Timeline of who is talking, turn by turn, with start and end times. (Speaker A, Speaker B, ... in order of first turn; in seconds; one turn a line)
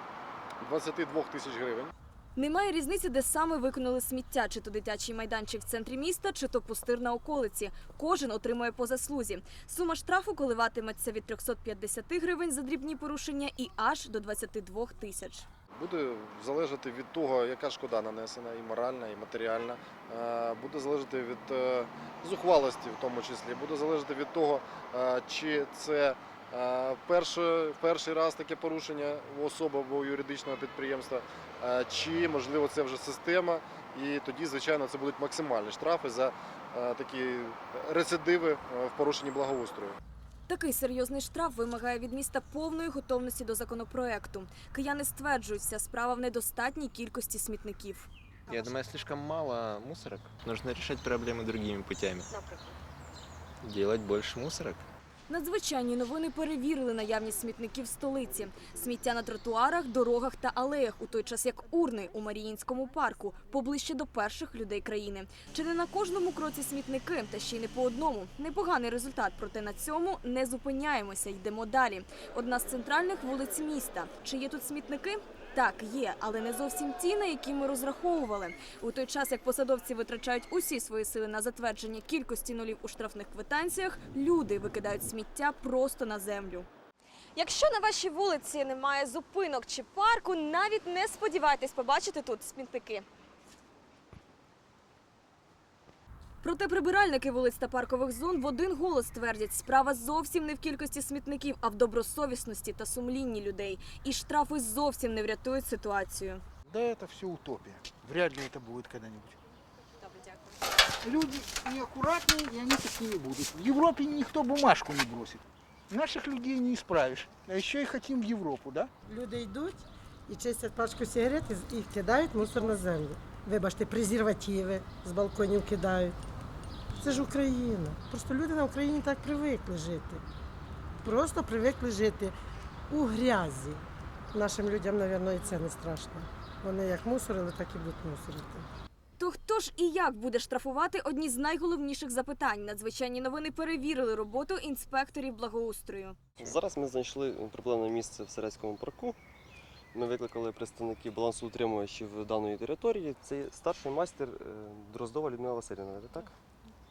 Speaker A: 0.6-1.9
Speaker B: 2.4-15.5
Speaker A: 15.8-40.0
Speaker B: 40.5-48.1
Speaker C: 48.5-52.3
Speaker C: 53.6-54.8
Speaker B: 55.3-86.7
Speaker B: 87.3-93.0
Speaker B: 96.4-106.4
Speaker D: 106.7-109.4
Speaker D: 111.0-118.9
Speaker E: 119.1-126.2
Speaker E: 127.0-130.2
Speaker E: 131.0-132.3
Speaker E: 132.9-133.8
Speaker E: 134.3-138.7
Speaker B: 139.2-146.2
Speaker F: 146.4-149.2
Speaker F: 149.9-156.3